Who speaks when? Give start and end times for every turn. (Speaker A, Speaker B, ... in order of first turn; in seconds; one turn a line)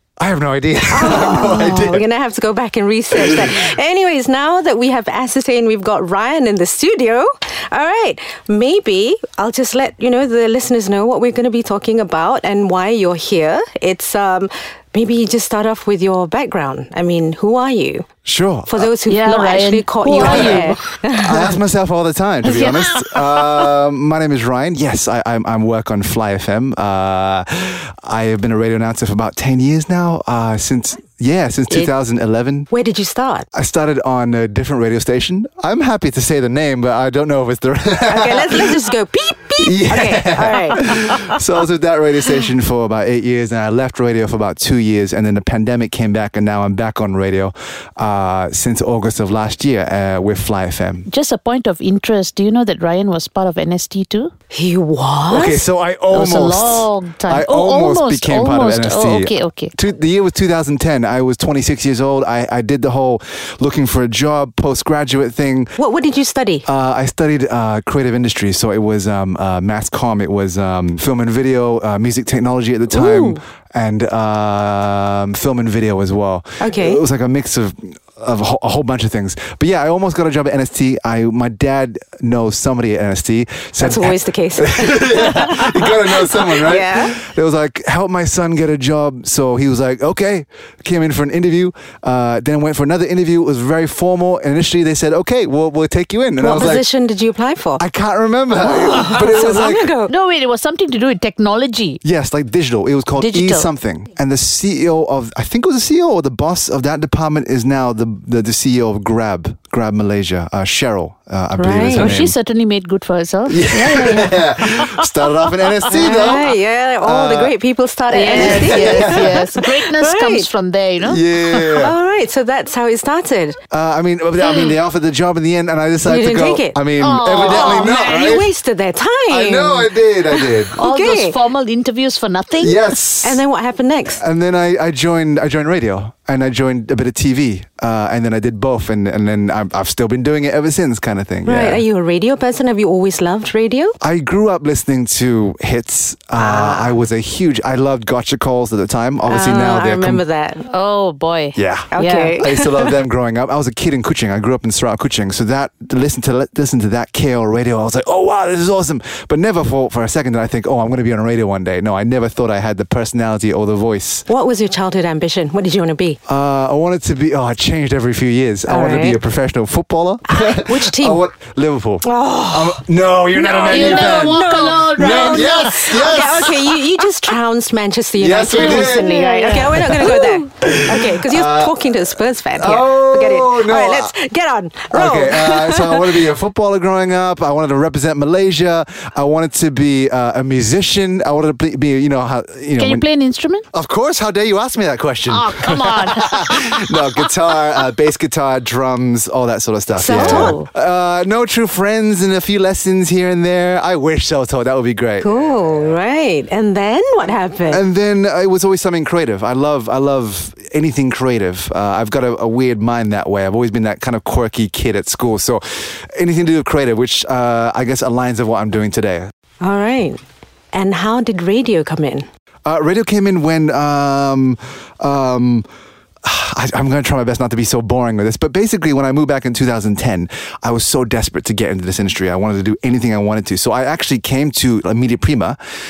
Speaker A: 0.2-2.0
Speaker B: 0.9-18.1
Speaker A: 3.2-3.5
Speaker A: 18.2-18.9
Speaker B: 18.7-21.5
Speaker C: 19.1-20.8
Speaker A: 20.2-32.7
Speaker C: 22.4-23.6
Speaker B: 32.7-33.5
Speaker A: 33.5-38.8
Speaker B: 38.1-41.2
Speaker A: 39.6-51.1
Speaker C: 51.1-54.3
Speaker B: 54.5-55.6
Speaker A: 55.3-65.8
Speaker C: 56.1-59.7
Speaker B: 65.8-66.7
Speaker A: 66.7-96.9
Speaker B: 72.9-73.4
Speaker B: 76.6-77.0
Speaker B: 83.8-87.2
Speaker B: 96.4-97.8
Speaker A: 97.8-100.0
Speaker B: 98.6-100.1
Speaker C: 100.1-102.0
Speaker A: 102.0-112.3
Speaker C: 103.2-103.7
Speaker B: 111.6-112.2
Speaker C: 112.0-116.3
Speaker A: 113.5-117.5
Speaker B: 115.9-120.5
Speaker C: 118.1-121.2
Speaker A: 118.3-119.5
Speaker A: 121.0-122.0
Speaker B: 121.5-123.6
Speaker A: 123.7-128.5
Speaker B: 126.0-126.8
Speaker C: 127.0-128.3
Speaker B: 127.4-131.4
Speaker A: 129.3-130.8
Speaker C: 130.8-133.0
Speaker A: 132.6-133.4
Speaker B: 133.2-134.2
Speaker A: 134.2-141.8
Speaker B: 141.4-144.0
Speaker A: 144.0-150.2
Speaker B: 146.4-146.9
Speaker B: 149.3-150.7
Speaker C: 150.6-152.4
Speaker A: 151.6-164.3
Speaker B: 151.9-152.9
Speaker B: 164.3-166.2
Speaker A: 166.3-176.7
Speaker B: 168.7-169.2
Speaker B: 170.3-171.2
Speaker B: 172.0-172.8
Speaker B: 173.3-186.3
Speaker C: 173.6-176.4
Speaker A: 178.2-179.1
Speaker C: 178.5-180.2
Speaker A: 179.7-184.1
Speaker A: 184.9-193.1
Speaker C: 192.8-193.6
Speaker A: 193.7-205.9
Speaker C: 195.3-196.8
Speaker B: 200.0-200.7
Speaker C: 200.1-200.6
Speaker B: 205.2-207.8
Speaker A: 207.7-219.3
Speaker B: 219.6-222.3
Speaker A: 222.7-225.7
Speaker A: 226.2-235.6